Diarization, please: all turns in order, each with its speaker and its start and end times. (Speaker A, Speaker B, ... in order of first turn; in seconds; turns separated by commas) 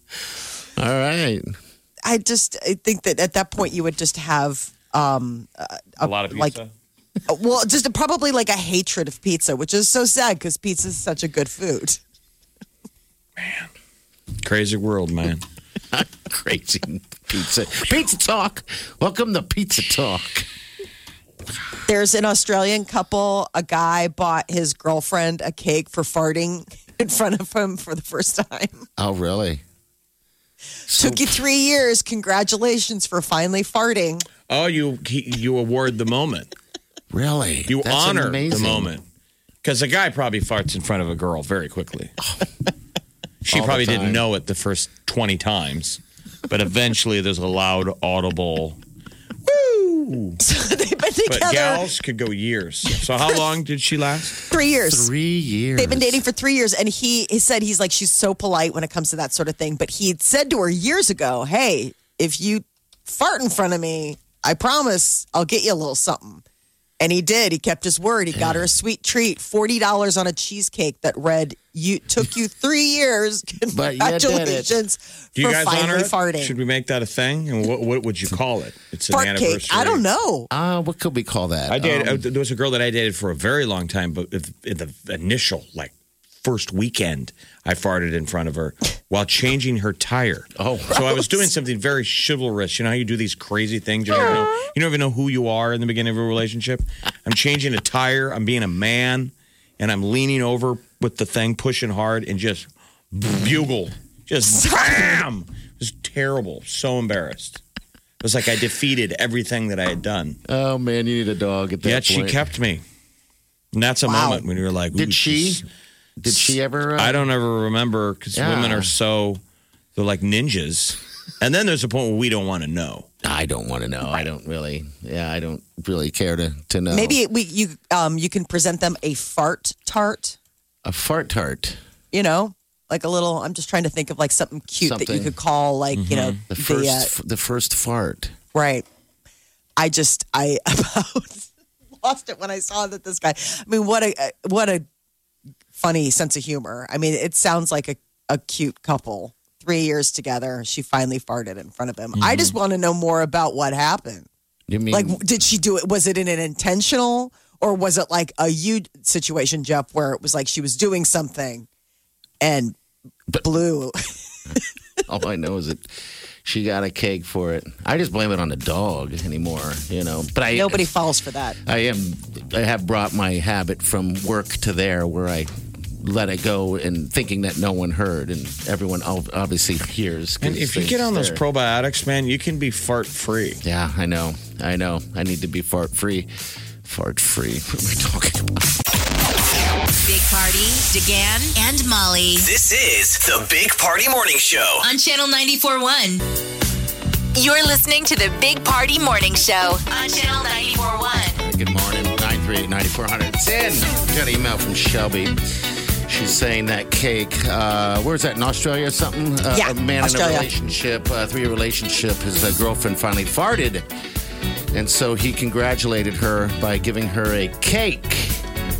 Speaker A: 0.8-1.6, Speaker B: 2.0-6.5, Speaker C: 6.0-6.7, Speaker B: 7.3-12.0, Speaker C: 13.4-13.7, Speaker C: 14.4-15.4, Speaker A: 15.9-20.5, Speaker B: 21.9-28.8, Speaker A: 29.0-29.6, Speaker A: 30.9-31.4, Speaker B: 30.9-34.2, Speaker C: 34.5-36.5, Speaker A: 37.1-38.9, Speaker C: 37.7-39.0, Speaker C: 39.6-42.1, Speaker C: 43.4-48.8, Speaker A: 43.5-44.2, Speaker C: 49.5-50.4, Speaker B: 50.4-51.9, Speaker C: 51.3-54.4, Speaker B: 54.5-55.1, Speaker A: 54.7-56.2, Speaker B: 55.8-66.4, Speaker B: 67.0-76.5, Speaker A: 68.3-68.7, Speaker A: 73.7-74.8, Speaker C: 75.4-80.0, Speaker B: 79.1-80.5, Speaker A: 80.5-82.2, Speaker C: 81.7-107.6, Speaker A: 90.6-91.2, Speaker B: 104.5-105.2, Speaker C: 108.2-110.4, Speaker A: 110.5-112.4, Speaker C: 111.8-112.8, Speaker C: 113.7-115.6, Speaker B: 114.0-114.4, Speaker A: 114.9-115.6, Speaker A: 116.2-117.2, Speaker C: 117.0-119.4, Speaker A: 118.3-118.9, Speaker C: 119.9-123.1, Speaker A: 123.2-127.2, Speaker B: 126.9-130.4, Speaker A: 130.8-131.8, Speaker B: 132.1-137.1, Speaker A: 134.8-135.3, Speaker C: 135.9-136.4, Speaker A: 136.5-138.3, Speaker B: 138.5-138.8, Speaker B: 139.8-141.5, Speaker B: 142.0-144.8, Speaker B: 145.7-154.3, Speaker C: 152.2-152.6, Speaker A: 154.7-155.2, Speaker B: 154.9-161.7, Speaker B: 162.4-162.8, Speaker B: 163.4-164.0, Speaker A: 165.1-165.9, Speaker A: 166.4-170.9, Speaker B: 170.5-171.6, Speaker A: 171.6-181.4, Speaker C: 180.4-183.6, Speaker A: 183.6-186.3, Speaker A: 186.8-188.7, Speaker D: 190.0-192.5, Speaker E: 192.4-194.9, Speaker D: 194.8-196.2, Speaker D: 197.3-201.4, Speaker A: 201.3-213.9, Speaker B: 209.5-210.5, Speaker A: 214.7-218.4